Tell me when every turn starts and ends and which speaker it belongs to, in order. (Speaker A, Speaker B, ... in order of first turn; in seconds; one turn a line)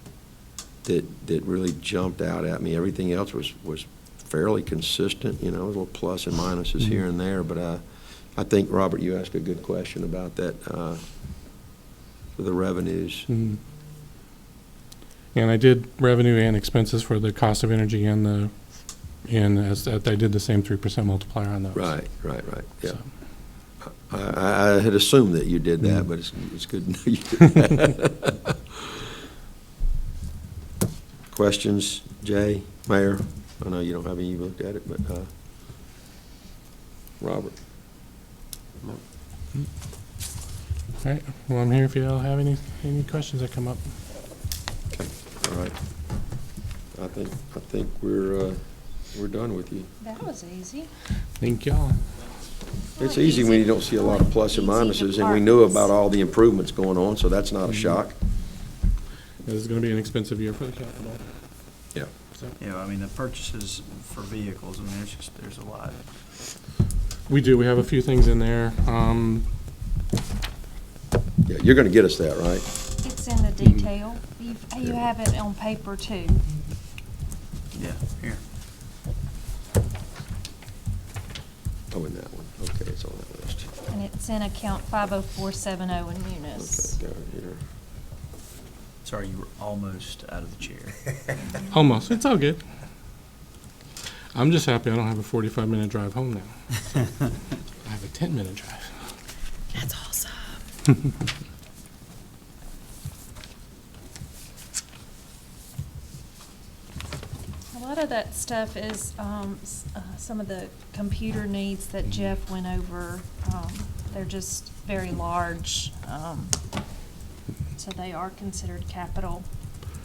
Speaker A: 0.8-7.8
Speaker A: 8.3-11.0
Speaker A: 12.3-13.3
Speaker B: 13.3-13.6
Speaker B: 15.3-18.5
Speaker B: 19.2-21.9
Speaker A: 21.8-23.0
Speaker A: 23.8-28.5
Speaker A: 31.3-35.3
Speaker A: 37.2-37.5
Speaker B: 41.0-43.8
Speaker A: 45.0-45.7
Speaker A: 47.0-48.6
Speaker A: 49.1-49.9
Speaker C: 50.0-50.9
Speaker B: 51.4-52.0
Speaker C: 53.0-55.9
Speaker A: 53.0-58.1
Speaker B: 59.5-61.2
Speaker D: 62.6-66.0
Speaker B: 67.3-69.5
Speaker A: 71.5-72.7
Speaker C: 73.0-76.4
Speaker D: 77.7-78.4
Speaker A: 81.9-83.7
Speaker C: 83.9-87.0
Speaker A: 86.6-87.6
Speaker D: 89.0-91.4
Speaker B: 91.7-92.6
Speaker B: 94.3-96.5
Speaker B: 97.8-98.9
Speaker C: 99.7-100.5
Speaker C: 107.7-116.5
Speaker C: 117.8-119.5